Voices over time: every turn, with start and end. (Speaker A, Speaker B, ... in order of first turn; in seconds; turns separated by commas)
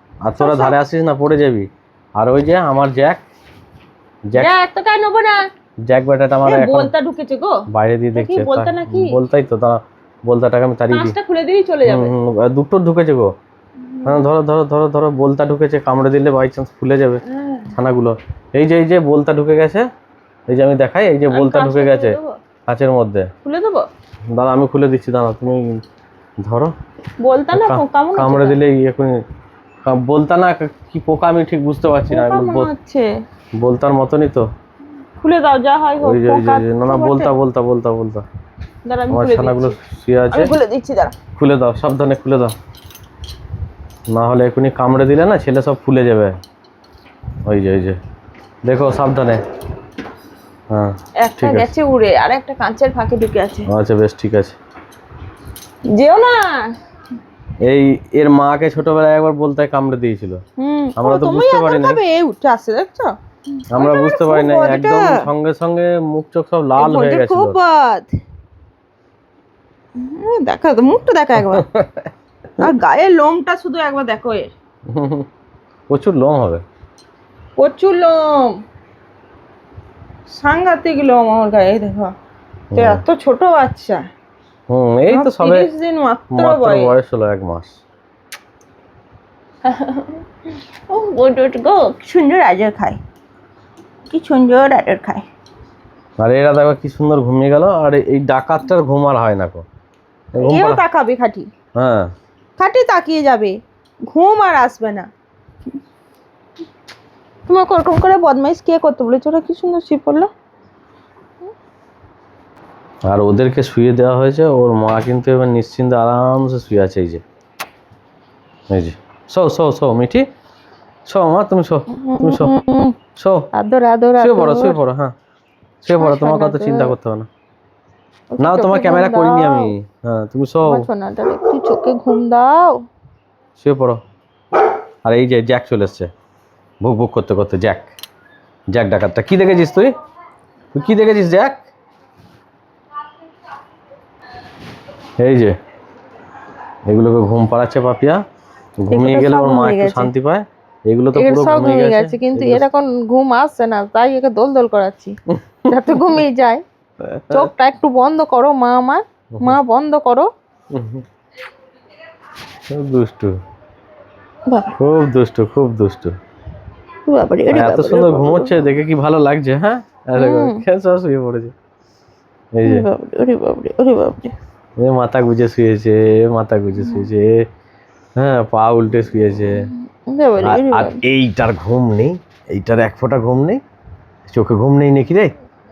Speaker A: 0.2-3.2, Speaker B: 0.4-0.8, Speaker B: 4.4-5.5, Speaker A: 5.9-6.9, Speaker B: 6.5-9.2, Speaker A: 7.7-11.1, Speaker B: 10.9-12.1, Speaker A: 11.8-13.3, Speaker B: 13.9-14.3, Speaker A: 14.0-19.9, Speaker B: 17.2-17.7, Speaker A: 20.5-22.2, Speaker B: 21.3-22.4, Speaker A: 22.7-23.3, Speaker B: 23.4-23.9, Speaker A: 24.3-25.8, Speaker A: 26.4-26.7, Speaker B: 27.2-28.6, Speaker A: 27.5-29.2, Speaker A: 29.8-32.7, Speaker B: 32.1-33.1, Speaker A: 33.6-34.5, Speaker B: 35.2-37.4, Speaker A: 36.0-38.2, Speaker B: 38.9-39.8, Speaker A: 39.1-40.5, Speaker B: 40.3-41.2, Speaker A: 41.4-42.5, Speaker A: 44.1-46.4, Speaker A: 47.5-48.0, Speaker A: 48.7-49.4, Speaker A: 50.7-51.7, Speaker B: 51.2-53.7, Speaker A: 53.7-54.5, Speaker B: 55.9-56.7, Speaker A: 57.6-60.4, Speaker B: 60.6-65.2, Speaker A: 61.0-62.0, Speaker A: 63.7-67.6, Speaker B: 66.8-68.1, Speaker B: 70.0-71.7, Speaker A: 71.4-72.1, Speaker B: 72.6-74.5, Speaker A: 74.9-75.3, Speaker A: 75.9-76.6, Speaker B: 77.6-78.6, Speaker B: 80.3-82.1, Speaker A: 82.7-83.0, Speaker B: 82.8-84.0, Speaker A: 84.7-85.7, Speaker B: 85.1-86.9, Speaker A: 86.3-87.8, Speaker B: 89.6-93.0, Speaker B: 94.1-95.2, Speaker A: 96.2-99.6, Speaker A: 100.3-100.8, Speaker B: 100.4-101.5, Speaker A: 101.8-102.1, Speaker B: 102.6-103.6, Speaker B: 104.1-105.1, Speaker B: 107.5-110.3, Speaker A: 113.1-117.2, Speaker A: 118.7-120.2, Speaker A: 121.1-122.6, Speaker B: 121.9-123.0, Speaker A: 123.2-123.5, Speaker B: 123.5-124.8, Speaker A: 124.2-125.1, Speaker A: 125.8-127.3, Speaker B: 125.9-126.9, Speaker B: 128.3-129.7, Speaker A: 128.4-130.9, Speaker B: 130.6-132.8, Speaker A: 133.6-134.0, Speaker A: 135.1-136.1, Speaker A: 136.8-137.9, Speaker A: 138.7-139.9, Speaker A: 140.7-141.7, Speaker A: 145.2-145.6, Speaker A: 146.9-148.2, Speaker A: 148.8-152.7, Speaker B: 148.9-150.1, Speaker B: 151.1-155.2, Speaker B: 155.7-156.6, Speaker A: 157.0-157.5, Speaker B: 157.3-160.3, Speaker A: 160.7-161.1, Speaker A: 162.7-163.4, Speaker B: 164.5-164.7, Speaker A: 164.8-166.2, Speaker B: 167.1-168.7, Speaker A: 167.5-171.5, Speaker B: 170.2-170.6, Speaker A: 172.6-172.9, Speaker B: 172.6-174.3, Speaker A: 174.8-177.4, Speaker B: 176.8-177.1, Speaker A: 178.2-179.7, Speaker B: 179.8-181.0, Speaker A: 180.4-183.6, Speaker A: 184.3-185.3